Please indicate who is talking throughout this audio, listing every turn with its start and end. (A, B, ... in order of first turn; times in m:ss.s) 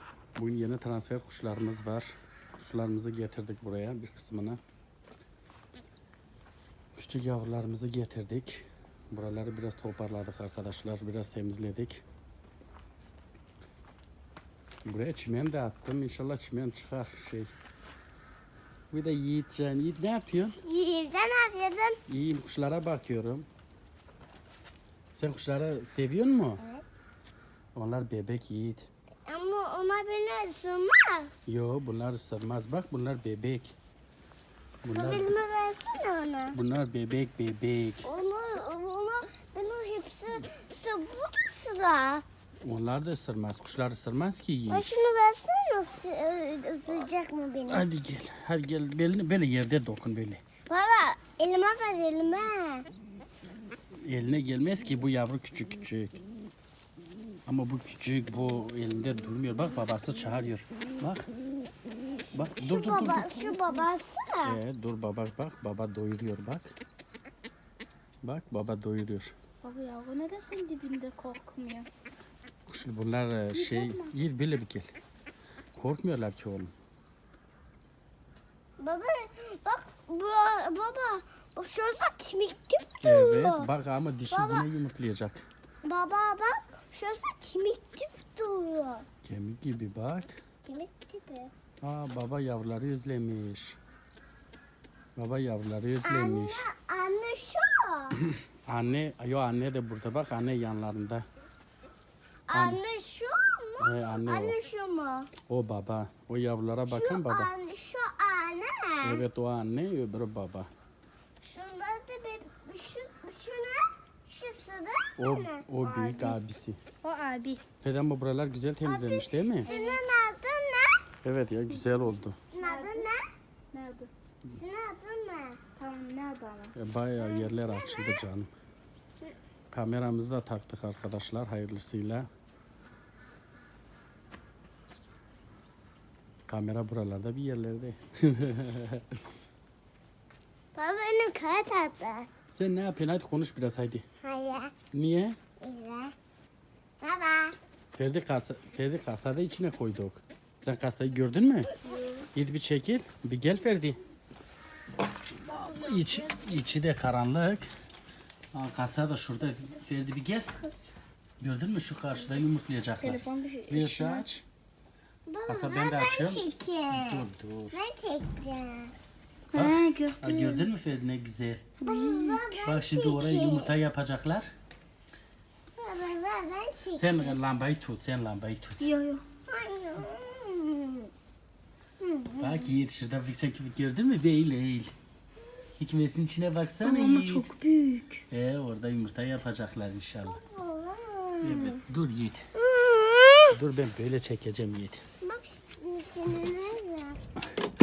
0:00.4-0:04.6 A
0:07.0-0:12.0 A
0:14.8-0:17.5 A
0:18.9-0:20.6 A
0:20.6-0:22.0 B
0:22.1-0:23.5 A
0:25.2-0:26.6 A
0:26.6-0:26.8 B
0:27.8-0:28.9 A
0:29.3-0:31.4 B
0:31.5-0:33.7 A
0:34.8-0:35.4 A
0:34.9-0:36.6 B
0:36.5-0:38.1 A
0:38.0-0:42.2 B
0:42.6-0:45.0 A
0:44.7-0:47.8 B
0:47.7-0:50.4 A
0:50.7-0:52.9 B
0:54.0-0:56.2 A
0:57.5-1:01.3 A
1:02.3-1:03.5 A
1:02.4-1:04.6 B
1:04.4-1:06.7 A
1:08.2-1:09.3 A
1:09.6-1:11.9 C
1:12.7-1:14.9 A
1:13.5-1:14.1 C
1:15.8-1:16.7 A
1:18.8-1:23.7 B
1:23.0-1:25.4 A
1:24.3-1:24.7 B
1:25.8-1:29.1 B
1:29.2-1:30.4 A
1:30.6-1:31.5 B
1:31.8-1:33.8 A
1:35.2-1:36.7 A
1:36.0-1:38.2 B
1:38.6-1:41.2 A
1:42.5-1:45.3 B
1:42.5-1:42.8 A
1:43.8-1:44.6 A
1:45.5-1:47.5 A
1:46.9-1:49.2 B
1:49.0-1:50.7 A
1:51.4-1:55.7 B
1:55.2-1:56.8 A
1:55.8-1:56.4 C
1:57.0-1:57.6 C
1:57.8-1:59.7 A
1:58.8-2:01.0 B
1:59.6-2:00.2 C
2:01.2-2:02.4 A
2:02.5-2:03.2 B
2:02.6-2:03.1 C
2:03.7-2:04.1 C
2:04.5-2:05.6 B
2:05.8-2:06.7 C
2:06.8-2:08.5 A
2:07.2-2:08.2 B
2:09.7-2:12.3 A
2:16.5-2:19.1 A
2:20.8-2:22.3 B
2:22.5-2:24.0 A
2:24.2-2:24.7 B
2:24.9-2:25.4 A
2:25.6-2:26.1 B
2:27.0-2:27.6 B
2:27.9-2:31.7 A
2:31.8-2:32.3 C
2:32.3-2:34.0 A
2:35.4-2:36.6 C
2:35.5-2:37.7 A
2:38.5-2:40.5 A
2:41.4-2:44.3 A
2:43.0-2:44.4 C
2:45.3-2:48.9 B
2:45.5-2:47.8 A
2:49.5-2:50.7 C
2:49.5-2:51.7 A
2:51.8-2:52.6 C
2:51.8-2:53.8 B
2:52.6-2:54.5 A
2:55.8-2:57.4 B
2:57.0-2:58.9 A
2:58.8-2:59.2 C
2:59.5-3:01.1 B
3:02.0-3:02.7 B
3:02.4-3:04.9 A
3:05.8-3:07.5 A
3:06.8-3:08.2 C
3:08.3-3:10.4 A
3:10.3-3:11.8 B
3:11.4-3:12.5 A
3:12.6-3:13.5 B
3:13.5-3:15.0 A
3:15.2-3:17.2 B